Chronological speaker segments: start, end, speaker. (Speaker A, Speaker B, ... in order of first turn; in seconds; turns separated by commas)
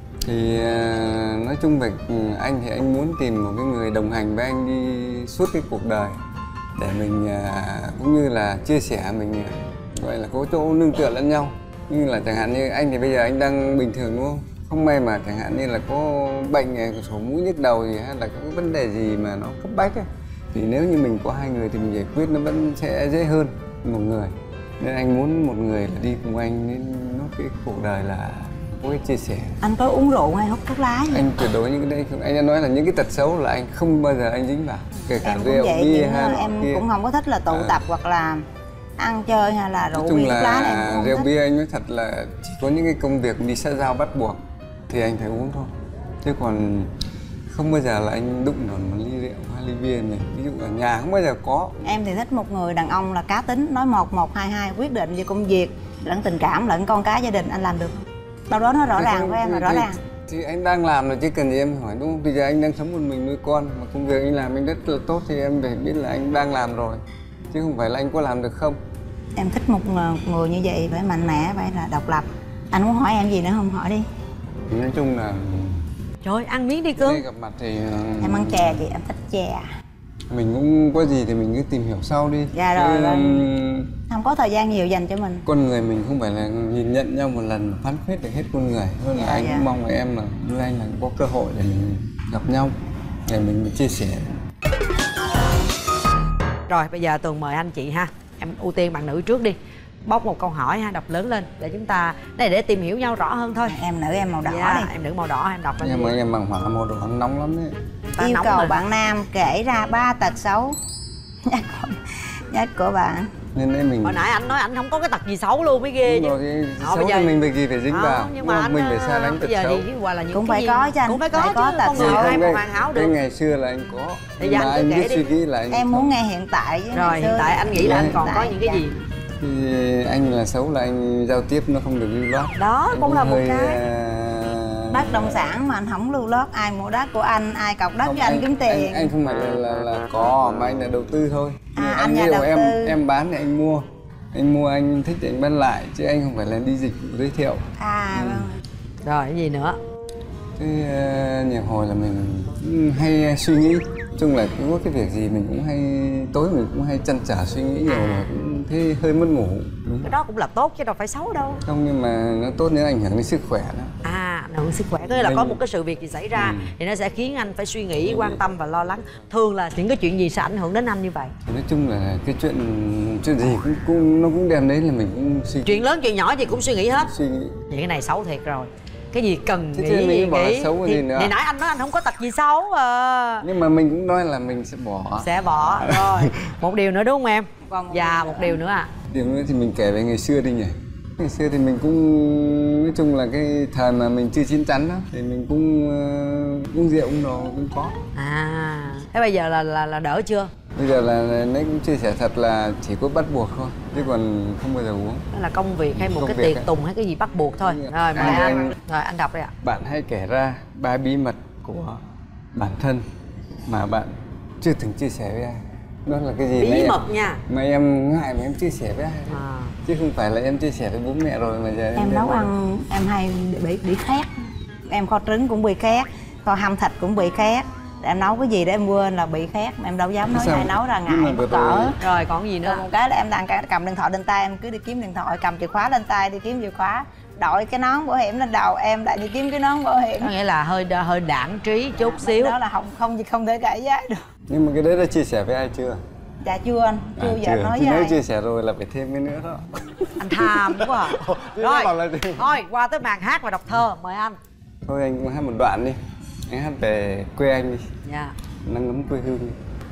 Speaker A: 0.2-6.1, Speaker A: 6.8-29.6, Speaker B: 29.6-31.2, Speaker A: 31.1-36.8, Speaker B: 35.2-38.4, Speaker A: 37.5-37.8, Speaker B: 39.0-41.3, Speaker A: 39.9-45.7, Speaker A: 46.2-46.9, Speaker A: 47.5-51.8, Speaker B: 51.8-60.0, Speaker A: 58.9-68.8, Speaker B: 69.3-74.0, Speaker A: 74.7-75.9, Speaker C: 76.2-77.2, Speaker A: 77.0-78.8, Speaker B: 78.2-79.7, Speaker A: 80.3-83.9, Speaker B: 82.5-83.5, Speaker B: 84.1-85.4, Speaker A: 85.5-92.7, Speaker B: 89.1-89.7, Speaker A: 93.3-94.3, Speaker C: 96.7-103.8, Speaker B: 103.6-104.9, Speaker C: 104.4-106.1, Speaker A: 105.8-107.8, Speaker C: 108.1-108.7, Speaker B: 108.2-110.8, Speaker B: 111.5-113.3, Speaker A: 113.5-114.2, Speaker C: 114.0-117.3, Speaker A: 116.0-119.8, Speaker C: 117.9-123.1, Speaker B: 120.3-122.5, Speaker A: 121.9-126.1, Speaker C: 124.4-125.3, Speaker B: 125.7-128.8, Speaker C: 126.9-129.0, Speaker A: 127.7-128.2, Speaker A: 129.4-135.5, Speaker C: 132.5-133.8, Speaker B: 134.9-139.1, Speaker A: 138.0-148.4, Speaker B: 141.7-143.0, Speaker B: 147.8-148.5, Speaker C: 149.0-149.8, Speaker A: 150.6-160.1, Speaker C: 157.8-158.3, Speaker C: 160.0-161.6, Speaker A: 161.6-163.9, Speaker C: 164.0-171.3, Speaker A: 165.0-165.6, Speaker A: 166.3-166.8, Speaker A: 167.9-168.4, Speaker A: 171.4-175.8, Speaker C: 175.6-177.1, Speaker A: 176.8-177.6, Speaker C: 177.7-183.4, Speaker A: 179.7-181.3, Speaker A: 183.4-186.3, Speaker C: 185.2-188.9, Speaker B: 187.7-188.6, Speaker A: 189.1-198.0, Speaker C: 198.1-200.5, Speaker A: 200.7-205.2, Speaker C: 205.3-209.5, Speaker A: 205.9-206.7, Speaker A: 207.3-208.8, Speaker A: 209.6-212.0, Speaker A: 212.5-213.0, Speaker A: 213.7-222.5, Speaker C: 216.6-217.4, Speaker C: 219.3-219.7, Speaker B: 221.9-224.3, Speaker B: 224.9-232.0, Speaker A: 230.3-231.9, Speaker C: 232.0-232.8, Speaker B: 232.6-240.3, Speaker C: 240.2-242.6, Speaker B: 241.9-244.2, Speaker A: 244.5-246.0, Speaker B: 246.4-248.2, Speaker A: 247.2-252.6, Speaker C: 250.2-254.4, Speaker A: 254.8-257.9, Speaker C: 258.0-258.4, Speaker A: 258.6-259.6